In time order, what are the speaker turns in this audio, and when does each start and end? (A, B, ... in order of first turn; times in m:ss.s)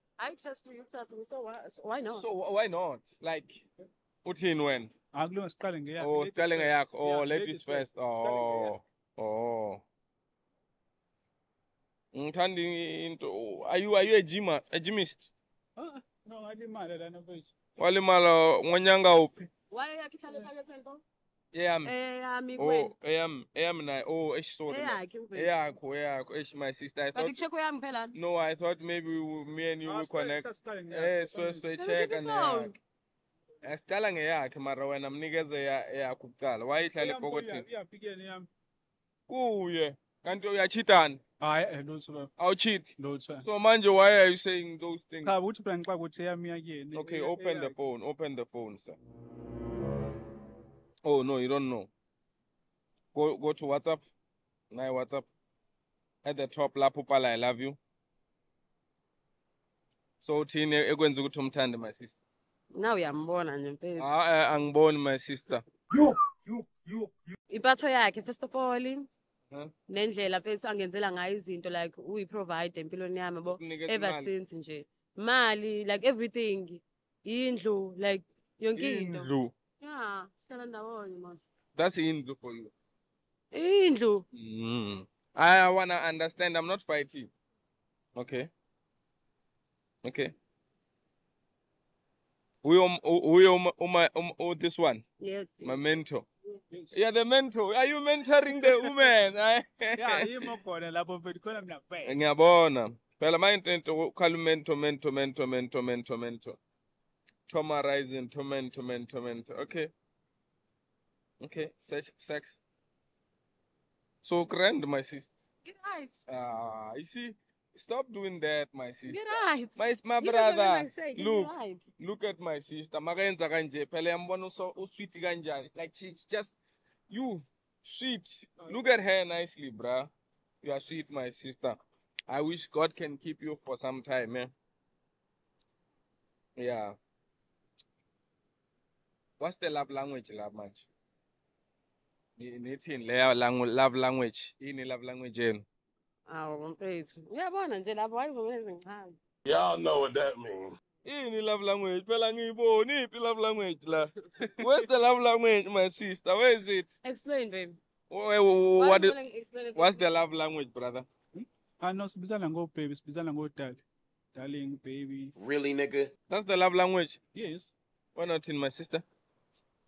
0:00.2-0:02.3 A
0:02.2-0:03.6 B
0:04.2-0:04.9 B
0:05.1-0:08.8 C
0:06.0-0:09.8 B
0:12.1-0:15.3 B
0:15.8-0:17.5 C
0:17.8-0:19.4 B
0:19.7-0:21.0 A
0:21.5-0:21.9 B
0:21.8-0:22.9 A
0:22.6-0:27.3 B
0:24.7-0:25.5 A
0:27.1-0:28.2 A
0:28.2-0:32.7 B
0:29.8-0:31.6 C
0:31.8-0:32.8 A
0:33.6-0:37.6 B
0:37.0-0:38.5 C
0:39.3-0:41.2 B
0:41.4-0:42.3 C
0:42.4-0:42.9 B
0:43.0-0:43.4 C
0:43.4-0:45.4 B
0:45.2-0:47.8 C
0:47.0-0:49.0 B
0:51.0-0:51.9 B
0:53.1-0:54.0 B
0:54.7-0:55.3 B
0:56.2-0:57.8 B
1:00.2-1:02.2 B
1:02.8-1:04.1 A
1:04.0-1:05.6 B
1:07.5-1:09.1 A
1:09.9-1:21.5 A
1:13.6-1:14.3 B
1:18.8-1:19.5 B
1:21.8-1:22.7 B
1:23.5-1:24.2 A
1:24.3-1:27.3 B
1:28.2-1:28.5 B
1:30.0-1:30.3 B
1:32.6-1:35.0 B
1:35.2-1:35.8 A
1:35.6-1:36.2 B
1:36.7-1:37.0 C
1:37.0-1:40.2 B
1:38.6-1:38.9 C
1:40.0-1:42.2 C
1:42.1-1:46.6 B
1:47.5-1:49.9 B
1:51.4-1:52.6 B
1:54.2-1:55.3 B
1:55.6-1:56.2 A
1:56.3-1:59.2 B
1:59.1-2:01.8 A
1:59.8-2:06.5 B
2:07.1-2:10.1 B
2:10.6-2:11.8 B
2:12.3-2:14.5 B
2:16.6-2:17.0 B
2:19.4-2:20.8 B
2:22.4-2:25.6 B
2:26.3-2:29.2 A
2:29.5-2:30.7 D
2:31.0-2:36.9 B
2:37.0-2:37.8 A
2:38.1-2:39.1 B
2:38.8-2:40.0 A
2:39.8-2:41.0 B
2:41.3-2:43.8 C
2:44.3-2:45.3 C
2:45.4-2:46.1 D
2:46.3-2:47.2 B
2:47.3-2:47.7 C
2:48.2-2:49.0 B